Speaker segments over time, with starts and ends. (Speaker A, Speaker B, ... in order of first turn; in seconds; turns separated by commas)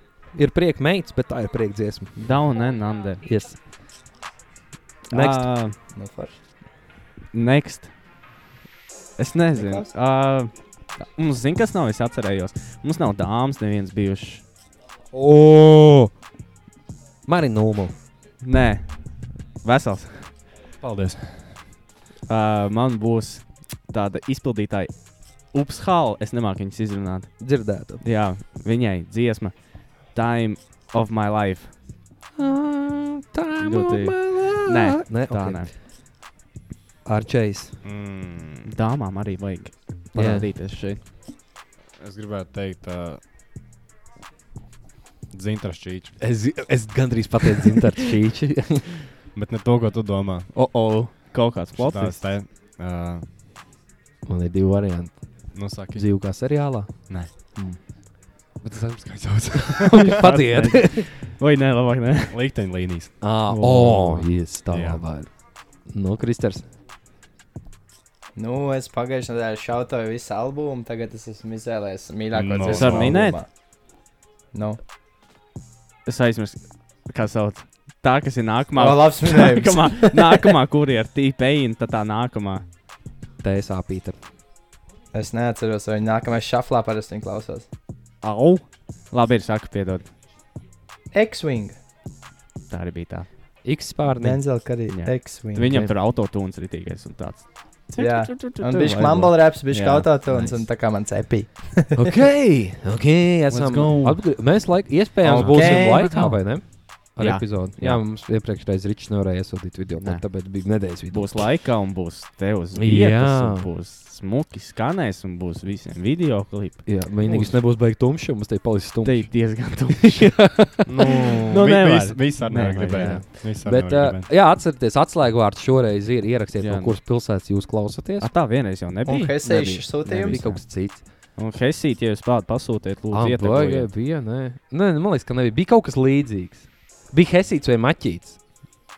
Speaker A: 0.3-2.1, Speaker B: 2.1-3.2, Speaker A: 3.2-3.6, Speaker A: 5.1-5.5, Speaker B: 5.1-5.7, Speaker C: 5.9-6.4, Speaker B: 7.3-7.9, Speaker B: 9.2-14.4, Speaker C: 9.5-9.9, Speaker A: 15.1-16.1, Speaker A: 17.2-17.9, Speaker B: 18.4-20.3, Speaker D: 20.8-21.6, Speaker B: 22.3-24.9, Speaker B: 25.4-27.4, Speaker A: 27.4-28.0, Speaker B: 28.0-31.7, Speaker A: 32.4-35.7, Speaker B: 33.6-35.7, Speaker A: 37.0-37.8, Speaker D: 37.8-38.7, Speaker B: 38.6-41.0, Speaker A: 40.1-40.5, Speaker D: 42.0-43.2, Speaker D: 45.3-46.2, Speaker A: 46.2-49.1, Speaker D: 49.3-50.5, Speaker B: 50.5-52.3, Speaker D: 51.7-53.3, Speaker A: 54.2-55.2, Speaker D: 55.5-56.1, Speaker A: 55.9-56.9, Speaker A: 57.5-57.8, Speaker D: 58.6-60.2, Speaker A: 59.7-61.1, Speaker B: 59.9-62.4, Speaker D: 62.3-63.2, Speaker A: 63.2-65.3, Speaker B: 63.5-64.3, Speaker D: 64.7-65.0, Speaker A: 65.8-66.6, Speaker C: 68.3-73.5, Speaker D: 72.3-73.3, Speaker B: 72.6-73.4, Speaker C: 74.5-74.8, Speaker B: 76.0-82.6, Speaker C: 78.8-80.5, Speaker A: 83.4-84.2, Speaker C: 85.1-87.7, Speaker B: 88.2-90.1, Speaker C: 91.1-91.8, Speaker B: 92.7-93.3, Speaker A: 93.6-94.7, Speaker C: 94.1-95.7, Speaker B: 94.9-100.7, Speaker A: 95.7-95.9, Speaker C: 98.0-102.0, Speaker A: 102.0-111.4, Speaker B: 103.5-104.4, Speaker B: 105.2-108.0, Speaker D: 105.2-105.7, Speaker C: 105.3-106.1, Speaker B: 110.0-117.6, Speaker A: 112.8-113.7, Speaker A: 116.8-121.4, Speaker B: 119.0-120.6, Speaker D: 120.9-124.3, Speaker B: 121.5-123.3, Speaker A: 122.7-128.3, Speaker B: 126.6-127.0, Speaker B: 128.2-133.9, Speaker C: 129.0-130.4, Speaker A: 129.4-131.0, Speaker A: 133.1-138.4